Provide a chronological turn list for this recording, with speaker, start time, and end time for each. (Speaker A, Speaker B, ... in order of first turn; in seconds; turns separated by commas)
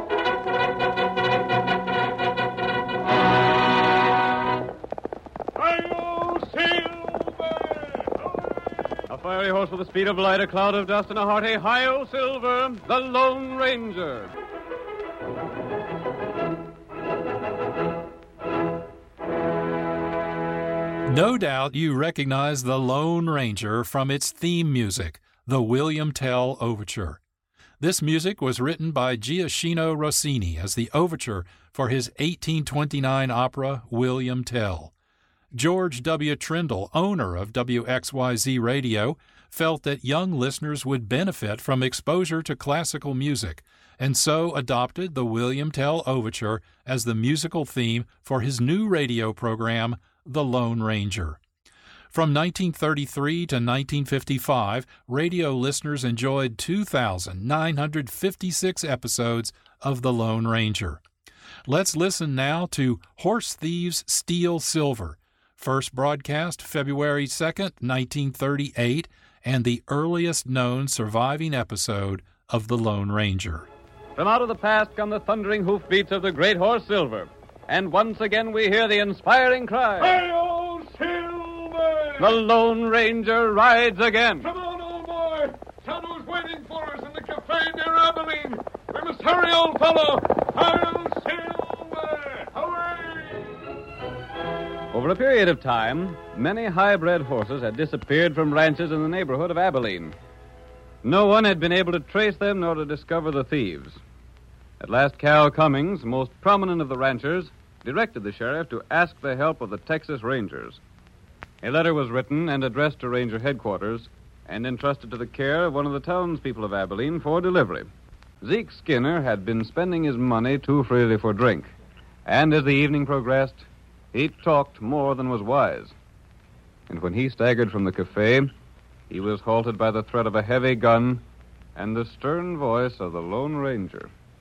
Speaker A: 5.6-8.5, Speaker B: 9.1-14.3, Speaker C: 21.1-27.2, Speaker C: 27.8-34.9, Speaker C: 35.5-51.4, Speaker C: 52.1-61.0, Speaker C: 61.7-73.7, Speaker B: 74.2-80.2, Speaker A: 80.0-82.3, Speaker B: 82.2-84.5, Speaker A: 84.4-93.4, Speaker B: 94.9-100.2, Speaker B: 101.0-104.0, Speaker B: 104.8-110.8, Speaker B: 111.6-117.9, Speaker B: 118.4-121.7, Speaker B: 122.2-125.9, Speaker B: 126.9-128.5, Speaker B: 129.1-131.2, Speaker B: 131.7-134.1